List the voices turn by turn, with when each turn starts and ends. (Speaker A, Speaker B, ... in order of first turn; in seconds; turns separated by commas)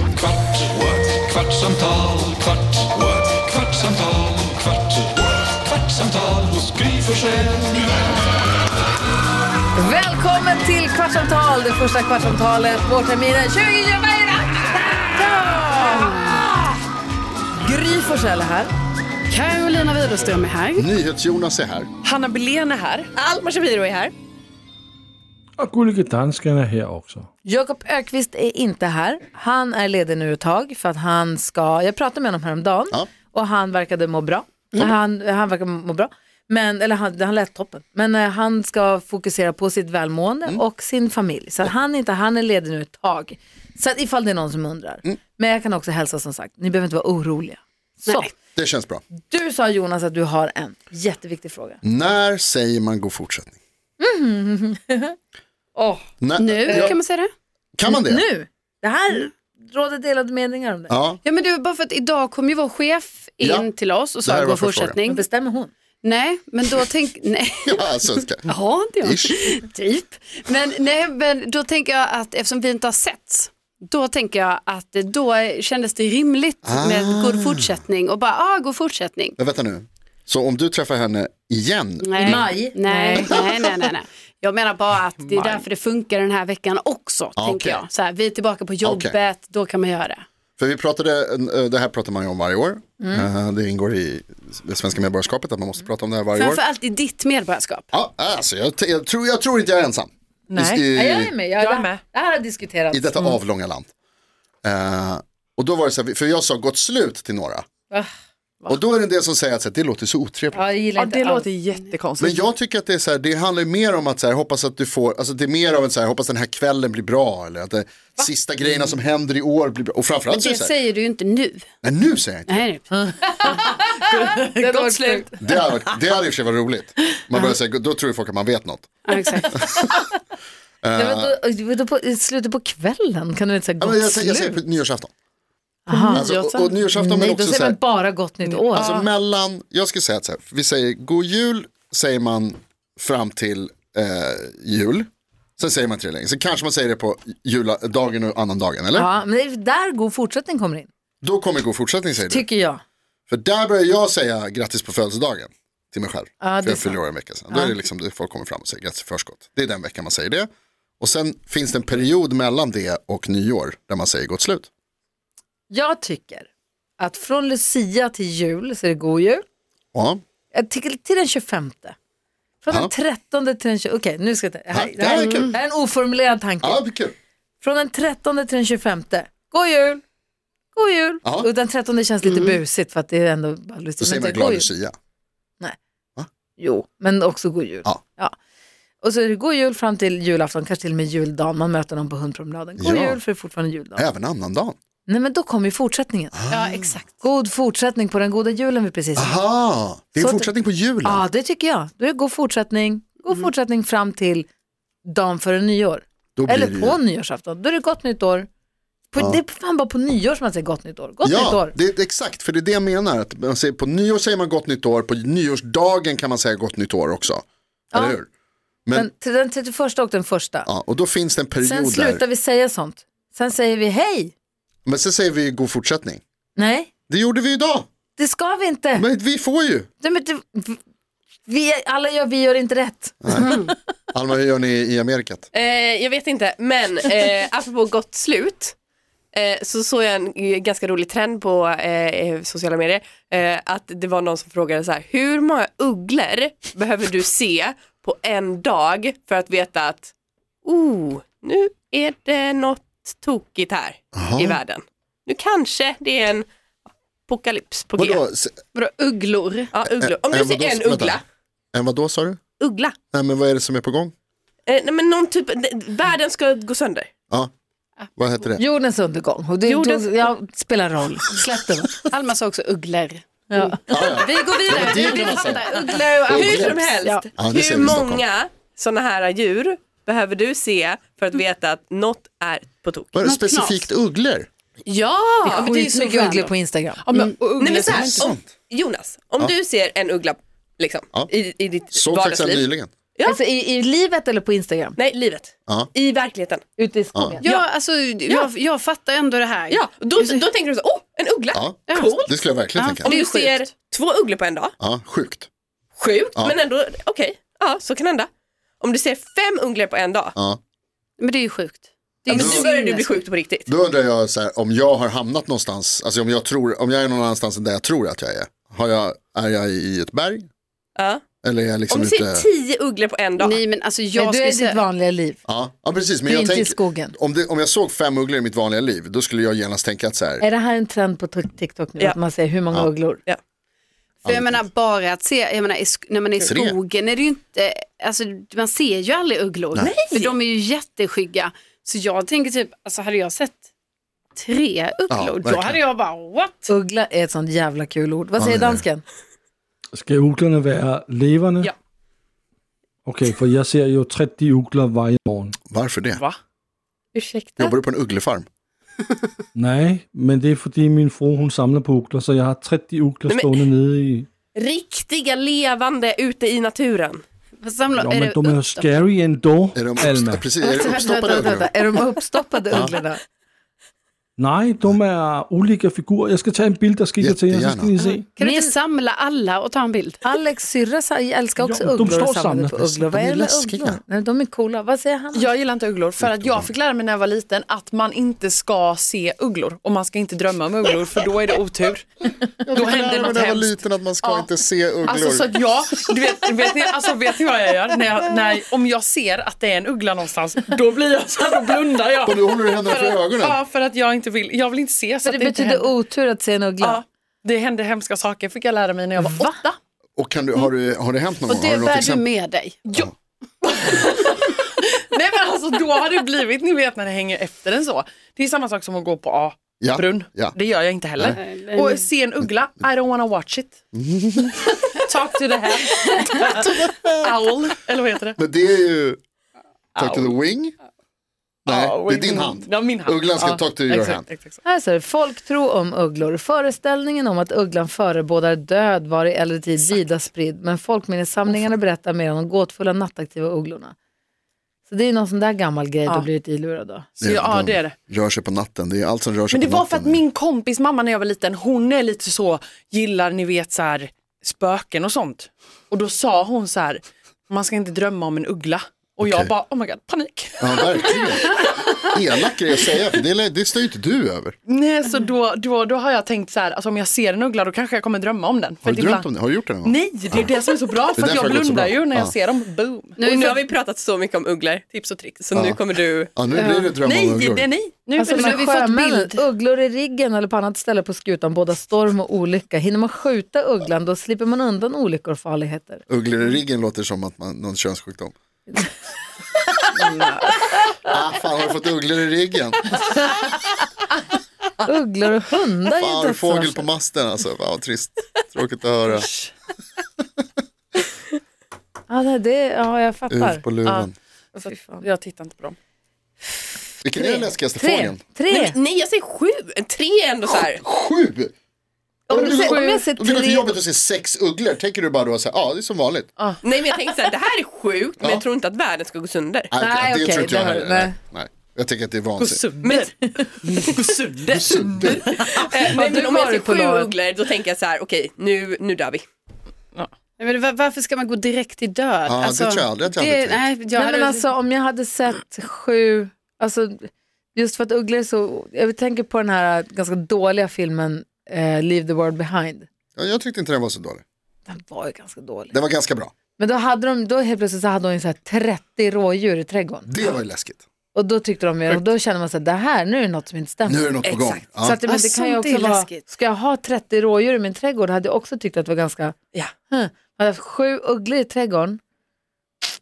Speaker A: 1.1-2.3, Speaker A: 3.6-4.3, Speaker A: 6.5-7.5, Speaker B: 9.8-16.6, Speaker B: 17.6-18.7, Speaker C: 19.3-20.9, Speaker D: 20.8-21.9, Speaker E: 22.0-23.1, Speaker F: 23.1-24.1, Speaker G: 25.6-27.3, Speaker B: 27.4-48.3, Speaker D: 48.6-49.0, Speaker B: 49.1-51.8, Speaker D: 51.8-53.6, Speaker B: 54.0-55.2, Speaker B: 55.8-56.1, Speaker D: 56.2-57.0, Speaker C: 56.4-57.3, Speaker B: 56.7-57.0, Speaker D: 57.8-58.2, Speaker B: 57.9-60.9, Speaker D: 60.9-61.2, Speaker C: 61.2-65.2, Speaker D: 63.4-63.7, Speaker D: 64.2-65.0, Speaker B: 65.1-65.7, Speaker C: 66.0-79.3, Speaker D: 67.7-68.5, Speaker D: 69.0-69.3, Speaker D: 76.6-77.7, Speaker D: 79.4-82.5, Speaker C: 82.0-90.2, Speaker B: 82.2-83.3, Speaker D: 87.4-87.8, Speaker D: 88.8-89.2, Speaker D: 90.6-96.6, Speaker B: 93.0-93.3, Speaker C: 96.4-97.9, Speaker D: 97.9-101.3, Speaker E: 100.5-100.9, Speaker B: 100.9-103.4, Speaker E: 101.6-102.0, Speaker D: 102.9-103.9, Speaker D: 104.6-107.7, Speaker D: 108.7-110.6, Speaker B: 110.5-111.5, Speaker E: 111.0-112.4, Speaker D: 112.2-120.7, Speaker C: 120.3-121.7, Speaker D: 121.8-122.6, Speaker C: 122.5-122.9, Speaker B: 122.9-125.4, Speaker E: 123.4-125.2, Speaker D: 125.4-128.9, Speaker C: 129.1-129.8, Speaker D: 130.8-131.4, Speaker B: 130.9-134.6, Speaker D: 133.8-135.1, Speaker B: 135.9-136.3, Speaker C: 135.9-136.7, Speaker D: 136.1-137.8, Speaker B: 136.9-139.0, Speaker D: 138.7-149.1, Speaker C: 138.8-139.1, Speaker B: 148.9-150.9, Speaker D: 151.2-152.5, Speaker B: 152.2-152.8, Speaker D: 153.3-160.5, Speaker B: 156.4-157.8, Speaker D: 161.0-164.7, Speaker B: 165.7-169.4, Speaker D: 169.9-170.2, Speaker B: 170.5-172.0, Speaker B: 172.6-176.8, Speaker D: 174.7-175.6, Speaker D: 176.6-177.2, Speaker B: 177.6-180.0, Speaker B: 180.8-184.7, Speaker D: 181.2-181.5, Speaker C: 182.2-182.6, Speaker D: 184.0-184.9, Speaker B: 186.6-188.3, Speaker B: 189.0-194.1, Speaker D: 192.8-193.2, Speaker D: 194.0-194.8, Speaker B: 195.1-196.4, Speaker D: 196.3-196.9, Speaker C: 196.5-197.2, Speaker B: 197.2-199.4, Speaker D: 199.2-201.2, Speaker B: 200.2-200.5, Speaker B: 201.0-204.5, Speaker B: 205.0-208.5, Speaker D: 206.4-207.0, Speaker B: 209.1-211.7, Speaker D: 211.2-218.3, Speaker B: 217.9-218.2, Speaker B: 218.9-220.7, Speaker D: 220.7-222.2, Speaker B: 221.6-224.3, Speaker D: 224.8-226.2, Speaker B: 226.6-226.9, Speaker D: 227.1-227.9, Speaker B: 228.2-229.1, Speaker D: 229.0-229.9, Speaker B: 230.0-230.8, Speaker B: 231.5-233.7, Speaker D: 233.2-233.6, Speaker C: 233.3-233.7, Speaker D: 234.1-235.5, Speaker F: 235.5-238.8, Speaker F: 239.3-250.1, Speaker F: 250.7-256.5, Speaker D: 254.2-254.6, Speaker F: 257.3-258.2, Speaker D: 258.0-258.6, Speaker C: 258.7-259.7, Speaker F: 259.7-261.2, Speaker D: 259.8-261.2, Speaker D: 261.7-262.4, Speaker F: 262.6-263.0, Speaker D: 263.1-264.1, Speaker F: 264.7-267.1, Speaker D: 268.2-268.6, Speaker B: 268.6-272.1, Speaker F: 269.7-270.3, Speaker C: 272.1-276.4, Speaker B: 273.5-276.9, Speaker D: 273.9-275.7, Speaker D: 276.2-278.3, Speaker F: 276.3-283.1, Speaker D: 283.1-284.5, Speaker C: 283.2-283.9, Speaker C: 284.9-286.5, Speaker F: 285.0-285.6, Speaker B: 285.6-287.0, Speaker E: 287.0-288.3, Speaker F: 287.6-293.4, Speaker D: 287.8-288.4, Speaker D: 291.9-292.9, Speaker B: 293.2-295.0, Speaker F: 295.0-296.6, Speaker B: 296.8-297.4, Speaker C: 297.4-299.8, Speaker F: 299.7-302.4, Speaker D: 301.5-303.1, Speaker C: 301.9-303.7, Speaker F: 303.1-304.7, Speaker D: 304.8-305.5, Speaker F: 306.0-308.3, Speaker F: 308.8-310.3, Speaker C: 311.2-313.2, Speaker F: 312.3-313.7, Speaker D: 312.3-312.7, Speaker D: 313.7-320.5, Speaker F: 321.0-321.2, Speaker D: 321.4-322.5, Speaker F: 321.9-323.6, Speaker C: 323.4-324.8, Speaker B: 324.2-325.4, Speaker D: 325.5-330.4, Speaker B: 326.2-327.1, Speaker B: 330.4-333.2, Speaker D: 334.2-334.6, Speaker C: 334.2-343.6, Speaker D: 336.4-336.8, Speaker C: 344.4-346.7, Speaker D: 345.1-345.8, Speaker B: 346.7-349.1, Speaker D: 348.4-348.9, Speaker G: 349.9-351.7, Speaker G: 353.1-355.6, Speaker D: 355.7-356.2, Speaker E: 356.1-356.4, Speaker F: 357.1-357.8, Speaker D: 357.6-358.5, Speaker G: 359.6-364.3, Speaker F: 363.3-363.7, Speaker F: 364.6-367.2, Speaker C: 367.6-368.9, Speaker G: 367.9-370.4, Speaker D: 369.8-371.7, Speaker B: 370.7-373.2, Speaker G: 374.4-378.3, Speaker D: 377.2-378.0, Speaker C: 378.1-380.2, Speaker B: 378.4-378.7, Speaker B: 380.2-385.5, Speaker G: 381.6-383.1, Speaker D: 383.1-384.0, Speaker E: 385.3-392.1, Speaker D: 386.2-386.7, Speaker D: 392.6-395.5, Speaker E: 392.7-394.5, Speaker E: 395.1-405.9, Speaker D: 402.3-403.6, Speaker B: 405.2-407.0, Speaker E: 406.8-409.8, Speaker B: 409.2-409.6, Speaker D: 410.2-412.3, Speaker C: 411.5-413.0, Speaker E: 413.6-423.8, Speaker D: 419.8-420.6, Speaker C: 421.2-422.1, Speaker D: 423.9-424.8, Speaker E: 424.9-428.4, Speaker D: 426.6-427.3, Speaker D: 428.4-429.2, Speaker D: 430.0-430.7, Speaker E: 430.0-430.3, Speaker D: 431.7-434.2, Speaker E: 431.7-434.6, Speaker B: 434.6-443.9, Speaker B: 444.9-447.1, Speaker E: 447.2-448.0, Speaker D: 447.2-450.2, Speaker E: 449.5-462.1, Speaker D: 459.2-459.5, Speaker D: 460.6-464.6, Speaker E: 464.7-469.3, Speaker D: 468.8-470.5, Speaker E: 469.8-473.7, Speaker D: 471.1-472.3, Speaker F: 473.2-476.3, Speaker D: 475.5-475.8, Speaker D: 476.4-477.7, Speaker C: 476.5-476.9, Speaker E: 477.0-478.7, Speaker B: 478.2-486.0, Speaker C: 478.2-479.4, Speaker D: 486.1-488.3, Speaker D: 491.0-493.0, Speaker B: 494.8-496.9, Speaker D: 496.0-499.3, Speaker E: 499.1-499.5, Speaker B: 502.1-503.6, Speaker D: 503.3-504.1, Speaker E: 503.9-505.8, Speaker B: 504.6-505.1, Speaker B: 506.6-508.8, Speaker D: 507.0-508.2, Speaker F: 508.5-510.8, Speaker D: 510.7-511.5, Speaker B: 512.3-513.7, Speaker D: 512.3-516.3, Speaker E: 512.4-513.0, Speaker E: 516.4-517.3, Speaker F: 516.6-519.7, Speaker D: 518.2-518.5, Speaker D: 519.7-522.6, Speaker B: 519.8-521.2, Speaker E: 522.4-526.2, Speaker F: 522.8-523.1, Speaker B: 523.4-523.8, Speaker D: 524.5-525.4, Speaker B: 525.6-527.1, Speaker F: 525.7-529.2, Speaker C: 530.4-534.4, Speaker D: 532.3-533.6, Speaker B: 534.0-542.9, Speaker D: 543.2-544.2, Speaker B: 544.7-545.8, Speaker D: 545.7-546.3, Speaker B: 546.6-550.1, Speaker D: 550.1-550.8, Speaker B: 551.1-562.0, Speaker D: 553.9-555.0, Speaker C: 555.0-556.2